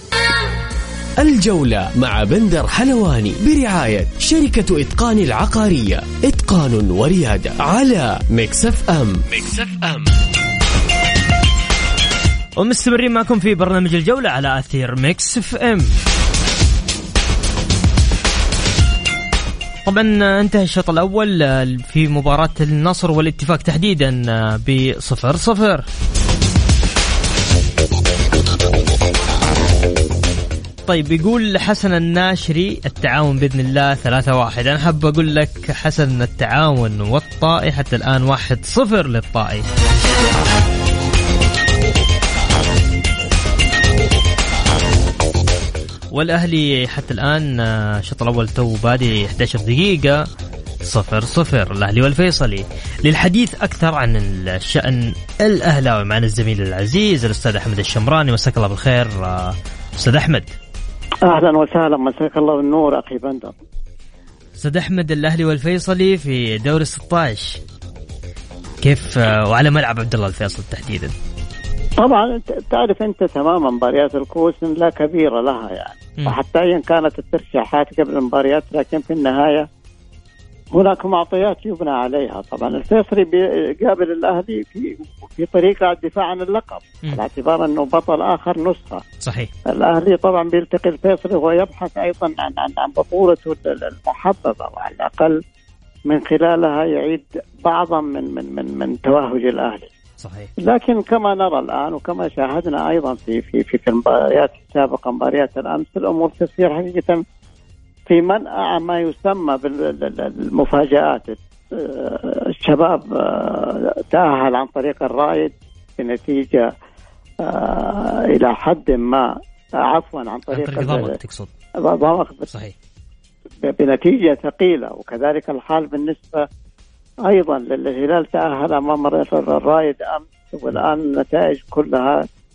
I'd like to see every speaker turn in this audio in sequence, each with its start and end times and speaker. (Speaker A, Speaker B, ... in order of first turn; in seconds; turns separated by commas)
Speaker A: 1.2-10.1, Speaker B: 12.6-15.9, Speaker B: 19.9-25.8, Speaker B: 30.9-39.6, Speaker B: 46.1-50.2, Speaker B: 50.8-60.5, Speaker C: 61.2-63.5, Speaker B: 64.6-67.6, Speaker B: 68.8-71.1, Speaker C: 72.0-79.7, Speaker C: 80.7-89.0, Speaker B: 89.2-89.5, Speaker C: 89.7-95.4, Speaker C: 96.1-99.9, Speaker B: 100.2-100.5, Speaker C: 100.6-107.2, Speaker C: 108.1-116.7, Speaker C: 117.4-121.2, Speaker B: 120.5-121.5, Speaker C: 121.8-122.5, Speaker C: 123.6-126.4, Speaker C: 127.2-132.2